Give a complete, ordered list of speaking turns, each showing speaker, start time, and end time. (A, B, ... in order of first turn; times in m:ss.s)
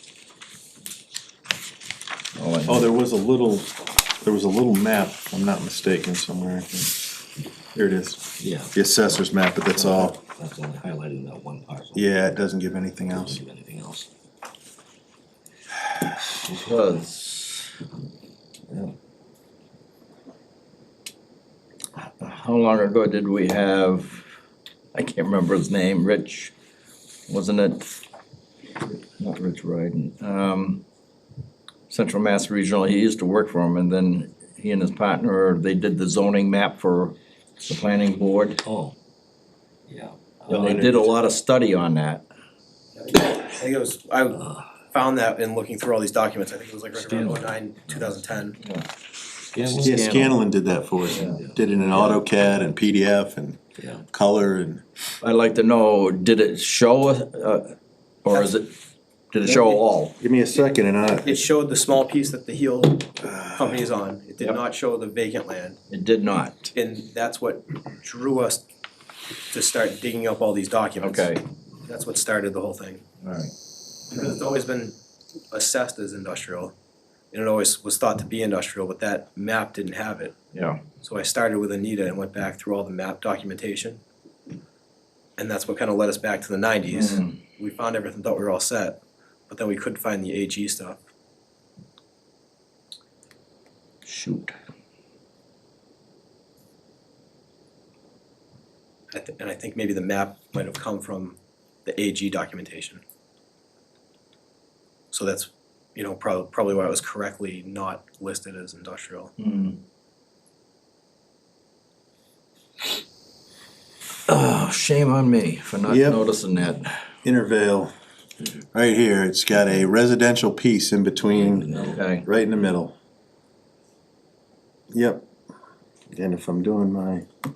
0:02.3-0:02.9 A
0:02.7-0:07.0 B
0:07.7-0:10.2 B
0:08.4-0:08.9 C
0:09.7-0:12.1 C
0:11.9-0:13.4 B
0:13.1-0:14.1 C
0:16.4-0:17.7 A
0:22.0-0:24.3 A
0:24.9-0:26.5 A
0:27.3-0:28.0 A
0:29.2-0:30.8 A
0:31.9-0:38.6 A
0:38.6-0:38.9 C
0:39.9-0:40.8 C
0:40.5-0:42.2 A
0:40.5-0:41.1 B
0:43.0-0:44.4 D
0:44.3-0:44.6 C
0:44.9-0:48.6 D
0:46.9-0:48.1 C
0:48.6-0:48.9 A
0:49.6-0:50.4 A
0:49.6-0:50.0 C
0:49.8-0:54.8 B
0:51.1-0:51.4 A
0:51.1-0:52.0 C
0:53.8-0:54.0 C
0:55.2-0:58.7 A
0:59.3-1:00.2 A
0:59.5-0:59.8 D
1:00.2-1:01.4 B
1:01.1-1:05.8 D
1:03.2-1:03.8 B
1:05.9-1:06.7 A
1:06.8-1:08.6 D
1:09.5-1:13.0 D
1:11.0-1:11.4 A
1:13.2-1:13.5 A
1:14.1-1:15.0 D
1:15.5-1:16.7 D
1:17.3-1:20.3 D
1:20.5-1:20.9 A
1:20.9-1:24.0 D
1:25.4-1:31.0 D
1:26.9-1:27.4 A
1:34.0-1:34.5 A
1:39.1-1:43.0 D
1:45.1-1:49.3 D
1:49.4-1:49.8 A
1:54.3-1:56.9 A
1:55.8-1:56.2 B
1:57.2-1:57.9 B
1:58.7-2:02.9 B
2:01.3-2:02.0 C
2:01.9-2:02.2 A
2:04.9-2:05.2 B
2:06.1-2:07.3 B